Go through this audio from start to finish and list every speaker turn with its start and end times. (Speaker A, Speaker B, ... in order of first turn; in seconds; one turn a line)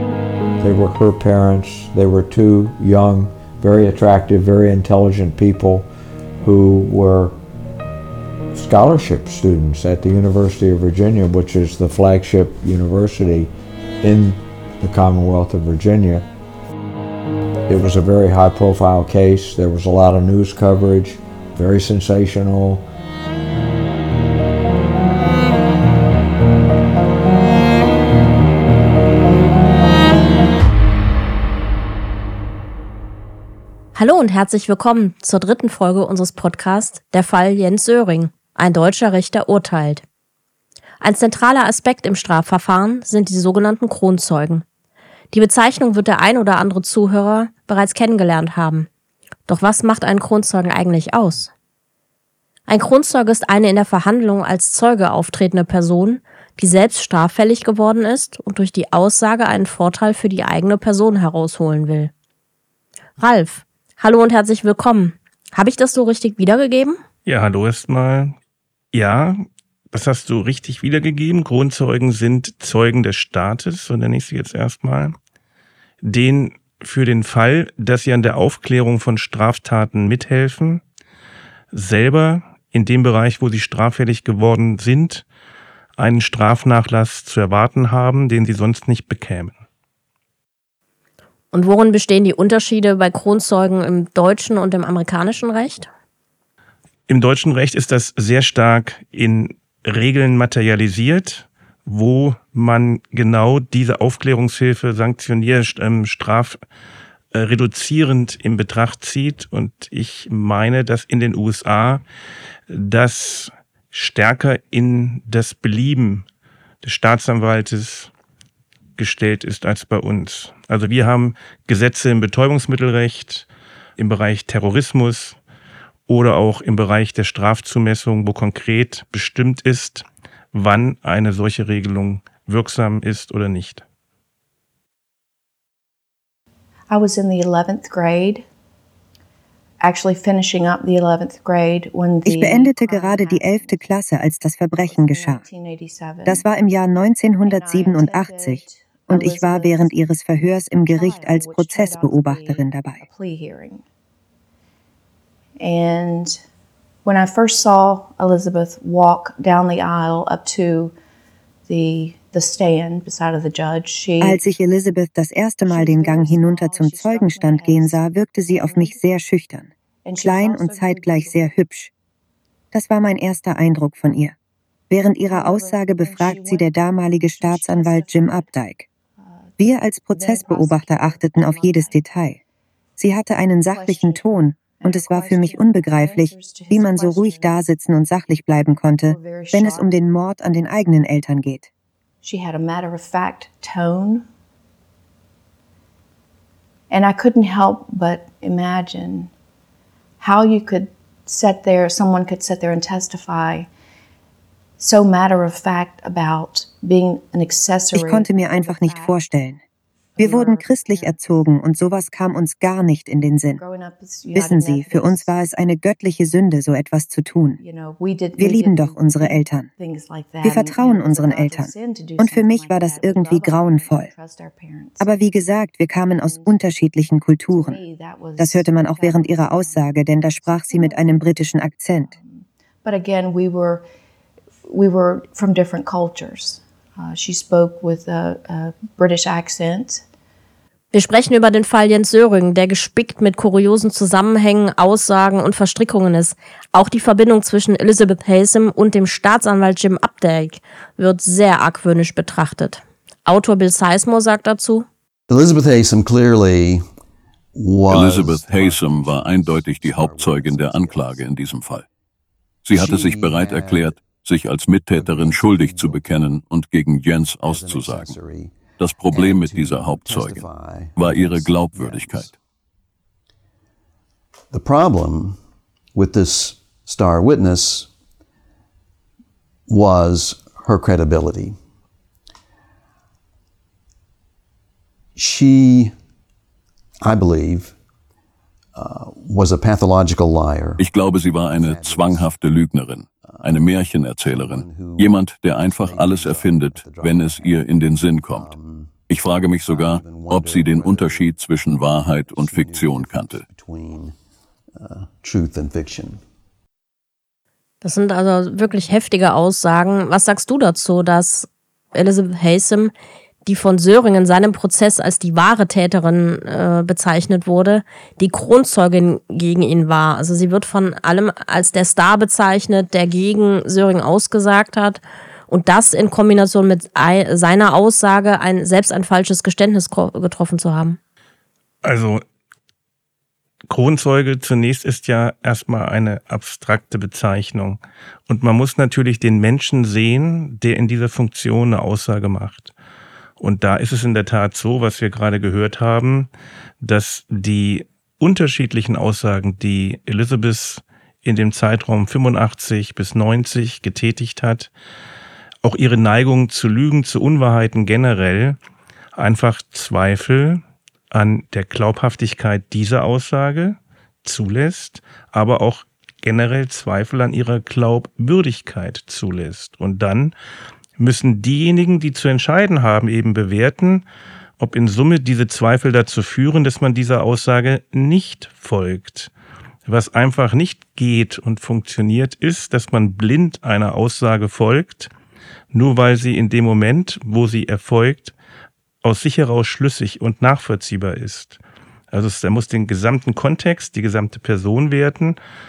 Speaker A: 0.6-5.9
Speaker A: 6.4-7.4
Speaker A: 8.5-16.3
Speaker A: 17.7-22.9
Speaker B: 33.9-40.0
Speaker B: 41.0-44.6
Speaker B: 45.3-48.9
Speaker B: 49.5-51.5
Speaker B: 52.7-62.1
Speaker B: 63.2-67.0
Speaker C: 67.2-68.3
Speaker C: 68.9-75.1
Speaker C: 76.0-80.8
Speaker C: 81.7-85.2
Speaker C: 86.0-89.6
Speaker B: 91.5-95.9
Speaker C: 97.1-106.6
Speaker C: 107.3-112.0
Speaker C: 112.7-116.2
Speaker C: 116.8-118.1
Speaker C: 119.0-125.4
Speaker C: 126.1-133.8
Speaker D: 136.9-138.4
Speaker D: 139.8-143.8
Speaker E: 142.2-145.4
Speaker D: 144.8-146.4
Speaker E: 146.2-153.0
Speaker D: 147.4-149.9
Speaker D: 150.9-153.8
Speaker D: 155.6-156.4
Speaker D: 157.0-160.9
Speaker D: 161.7-164.4
Speaker E: 164.2-171.9
Speaker D: 165.7-169.0
Speaker D: 170.0-171.4
Speaker E: 172.7-174.3
Speaker E: 174.9-178.8
Speaker D: 175.2-178.5
Speaker D: 179.3-179.6
Speaker E: 179.6-182.4
Speaker D: 180.1-182.0
Speaker E: 183.0-191.7
Speaker D: 183.7-187.6
Speaker D: 189.0-189.9
Speaker D: 192.2-194.2
Speaker D: 196.9-199.3
Speaker D: 200.2-203.7
Speaker D: 204.8-209.2
Speaker E: 207.9-209.6
Speaker D: 210.2-211.2
Speaker E: 210.2-213.6
Speaker D: 213.5-215.4
Speaker E: 214.3-217.6
Speaker D: 217.6-225.1
Speaker E: 218.4-219.7
Speaker E: 220.4-224.1
Speaker E: 225.0-227.8
Speaker D: 226.2-226.6
Speaker D: 227.5-233.8
Speaker E: 228.4-232.1
Speaker D: 234.7-240.0
Speaker B: 240.9-254.9
Speaker F: 255.3-256.8
Speaker F: 257.5-261.3
Speaker G: 257.9-261.8
Speaker G: 262.6-268.1
Speaker F: 262.7-264.1
Speaker F: 264.9-266.3
Speaker F: 267.4-272.4
Speaker G: 268.8-270.4
Speaker G: 270.9-272.3
Speaker F: 274.5-275.4
Speaker F: 275.9-277.9
Speaker F: 279.7-281.6
Speaker F: 285.1-285.9
Speaker F: 287.0-287.7
Speaker F: 288.7-290.9
Speaker G: 290.8-298.5
Speaker F: 291.4-292.3
Speaker F: 293.2-299.0
Speaker G: 299.1-303.4
Speaker F: 299.6-304.1
Speaker F: 304.8-306.2
Speaker B: 307.8-312.9
Speaker B: 313.4-331.0
Speaker C: 331.8-332.2
Speaker C: 333.7-342.7
Speaker C: 343.4-346.3
Speaker C: 346.8-354.7
Speaker C: 355.6-358.6
Speaker C: 359.1-370.3
Speaker C: 371.0-374.1
Speaker C: 374.6-379.3
Speaker C: 379.9-385.1
Speaker C: 385.7-388.3
Speaker C: 389.0-391.6
Speaker C: 392.1-395.4